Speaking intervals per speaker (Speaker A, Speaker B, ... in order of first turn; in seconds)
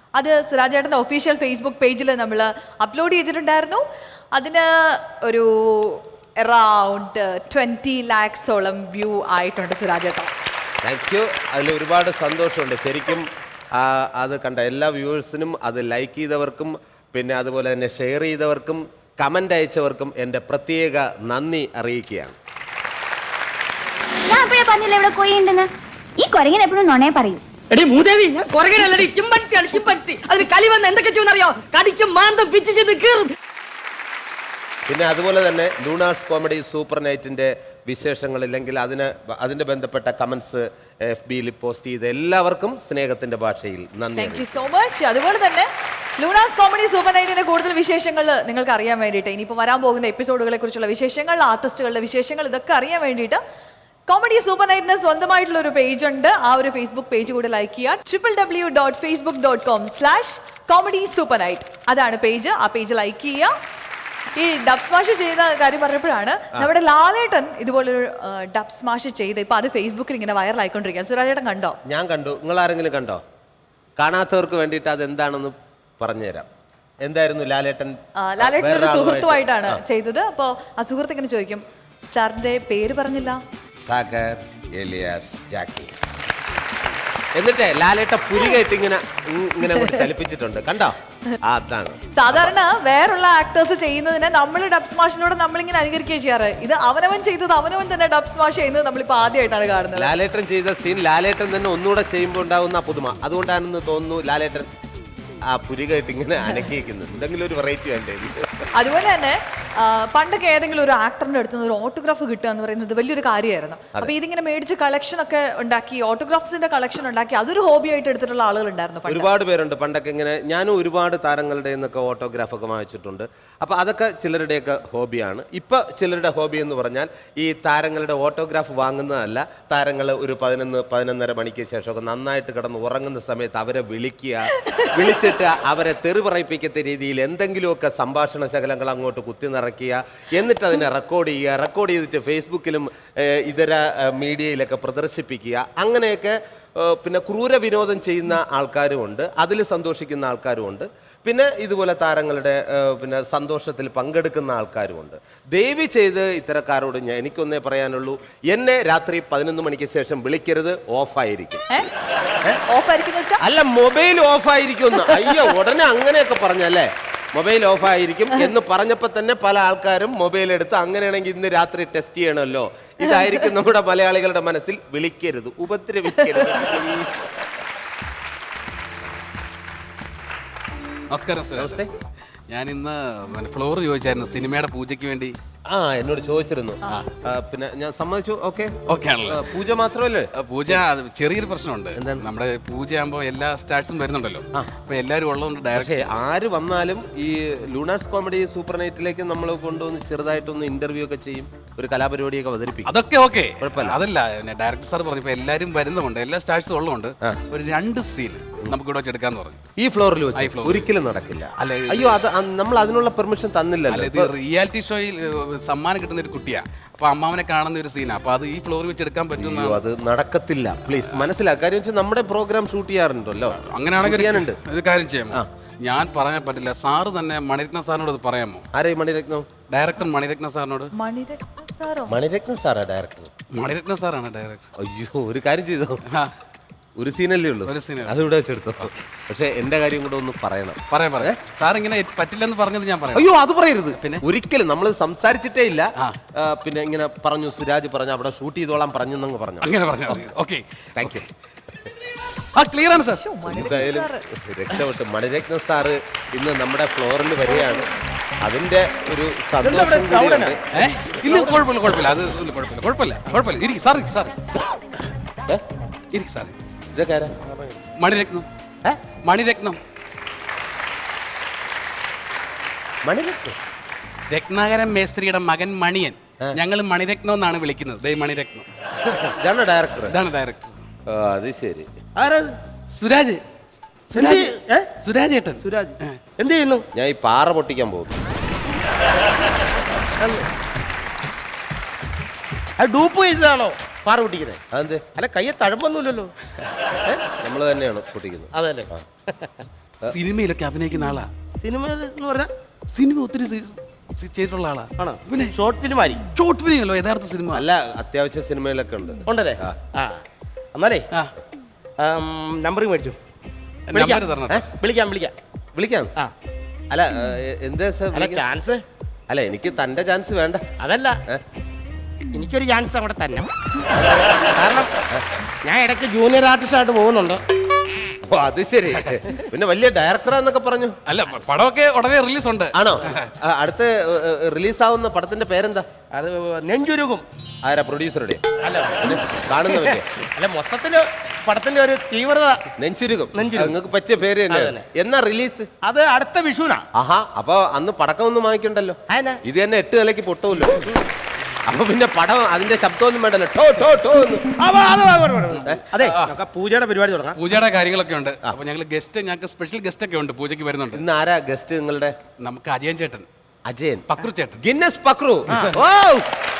Speaker A: 0.1-3.8, 4.3-10.3, 44.2-53.4, 54.1-63.5, 64.4-71.8, 78.2-83.4, 92.1-100.1, 108.8-119.3, 162.7-163.4, 230.9-232.2, 252.9-254.2
Speaker B: 10.8-22.4, 34.9-44.5, 71.9-73.2, 74.0-76.5, 77.0-79.8, 83.8-85.9, 87.4-92.5, 100.0-104.7, 105.5-108.7, 119.1-161.7, 163.4-177.3, 181.6-181.9, 185.7-188.7, 189.3-190.8, 192.0-192.2, 195.7-202.9, 203.6-204.0, 209.8-214.3, 219.4-224.6, 228.7-229.5, 232.1-233.3, 234.8-236.0, 237.0-241.4, 243.1-249.7, 251.0-251.3, 253.5-257.9, 258.4-260.6, 266.9-267.3, 273.1-273.6, 279.4-280.1, 281.1-281.9, 286.9-288.2, 294.7-295.1, 297.4-299.1, 307.5-309.8, 315.8-316.1, 316.9-318.4, 319.3-320.6, 328.2-330.9, 332.7-335.9, 337.6-338.4, 339.0-340.1, 342.8-345.7, 346.9-350.9, 351.7-354.5, 355.6-356.0, 360.9-362.1, 363.7-366.3
Speaker C: 24.3-27.4
Speaker D: 27.7-33.3
Speaker E: 181.1-181.8, 182.5-185.4, 188.9-189.5, 190.4-196.0, 202.9-209.6, 210.3-210.9, 211.6-212.2, 213.9-219.8, 223.6-228.7, 229.7-230.9, 233.5-234.7, 237.7-238.2, 240.9-243.3, 244.0-244.2, 249.6-251.2, 252.2-253.2, 260.7-264.3, 266.1-266.5, 268.0-268.5, 269.2-269.8, 274.3-278.7, 280.1-280.8, 282.9-283.4, 284.1-286.2, 300.0-301.3, 302.9-305.6, 306.3-307.6, 313.9-314.7, 331.1-333.3, 355.6-356.3, 357.4-361.0, 362.4-363.3, 364.1-364.6
Speaker F: 259.6-260.6, 261.2-261.5, 267.5-267.8, 282.1-282.6, 284.1-284.9, 285.6-286.9, 290.2-290.5, 292.8-294.6, 295.1-296.3, 298.5-299.6, 301.6-302.5, 305.0-306.2, 309.3-310.2, 310.7-311.1, 312.0-313.2, 313.9-315.3, 318.1-318.8, 320.8-321.2, 322.3-323.5, 324.2-324.9, 325.6-327.4, 336.1-337.2, 338.6-342.7, 343.4-343.8, 344.5-344.9, 345.8-346.9, 349.1-349.4, 354.5-357.4